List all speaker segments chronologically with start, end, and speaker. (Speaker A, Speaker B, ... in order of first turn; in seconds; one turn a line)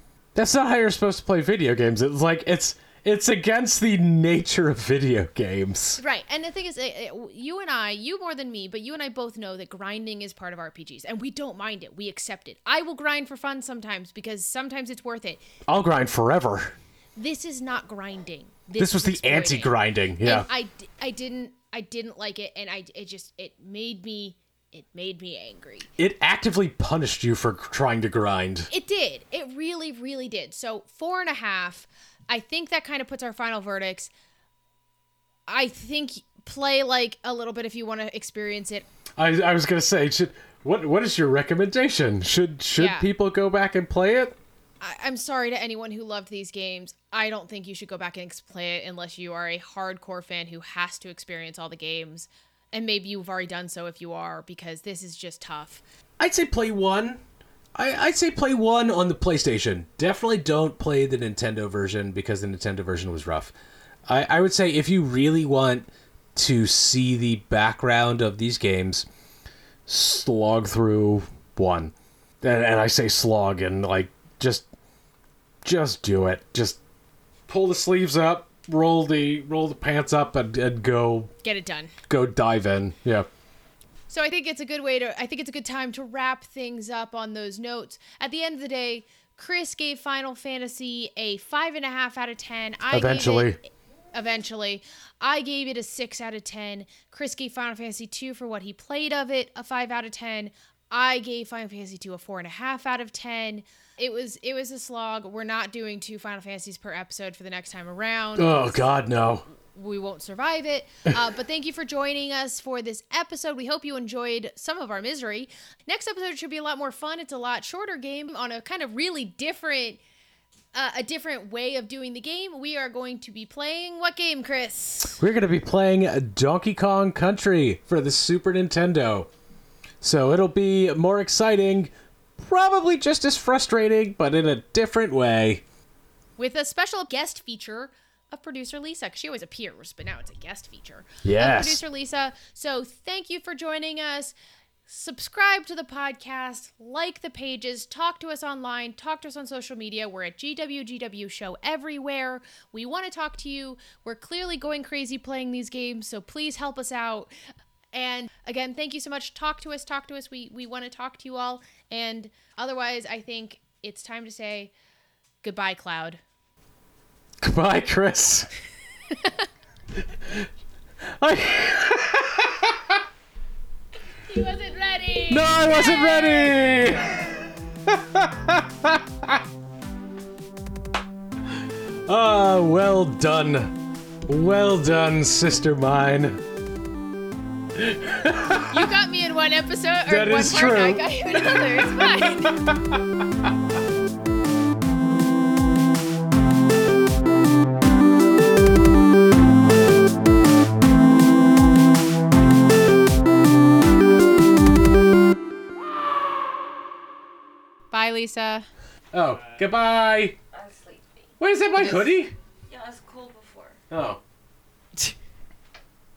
Speaker A: 0.3-6.0
Speaker B: 6.0-15.4
Speaker A: 15.7-16.8
Speaker B: 17.2-25.9
Speaker A: 18.8-20.5
Speaker A: 26.0-28.7
Speaker B: 28.7-34.1
Speaker B: 35.5-38.9
Speaker A: 39.2-44.4
Speaker B: 42.8-43.1
Speaker B: 44.8-55.8
Speaker A: 56.2-57.2
Speaker A: 57.8-63.5
Speaker A: 64.1-69.1
Speaker A: 69.9-74.7
Speaker A: 75.6-76.8
Speaker A: 77.5-81.3
Speaker B: 81.4-81.9
Speaker A: 82.1-83.3
Speaker B: 84.1-93.6
Speaker A: 92.9-93.6
Speaker B: 94.1-108.9
Speaker A: 108.4-109.4
Speaker B: 109.7-120.0
Speaker B: 120.7-125.2
Speaker A: 125.2-129.3
Speaker A: 130.0-135.6
Speaker B: 136.4-144.3
Speaker A: 141.2-141.8
Speaker B: 144.9-157.3
Speaker B: 157.9-164.7
Speaker B: 165.4-166.2
Speaker A: 167.4-168.5
Speaker A: 171.2-173.0
Speaker B: 174.3-176.6
Speaker A: 175.3-179.4
Speaker A: 182.1-183.8
Speaker A: 184.3-186.4
Speaker A: 187.8-188.9
Speaker B: 188.7-192.6
Speaker A: 190.1-193.5
Speaker B: 207.9-208.7
Speaker A: 209.1-210.4
Speaker C: 210.5-211.3
Speaker A: 211.4-212.3
Speaker B: 211.8-212.1
Speaker C: 212.7-213.8
Speaker A: 213.9-214.2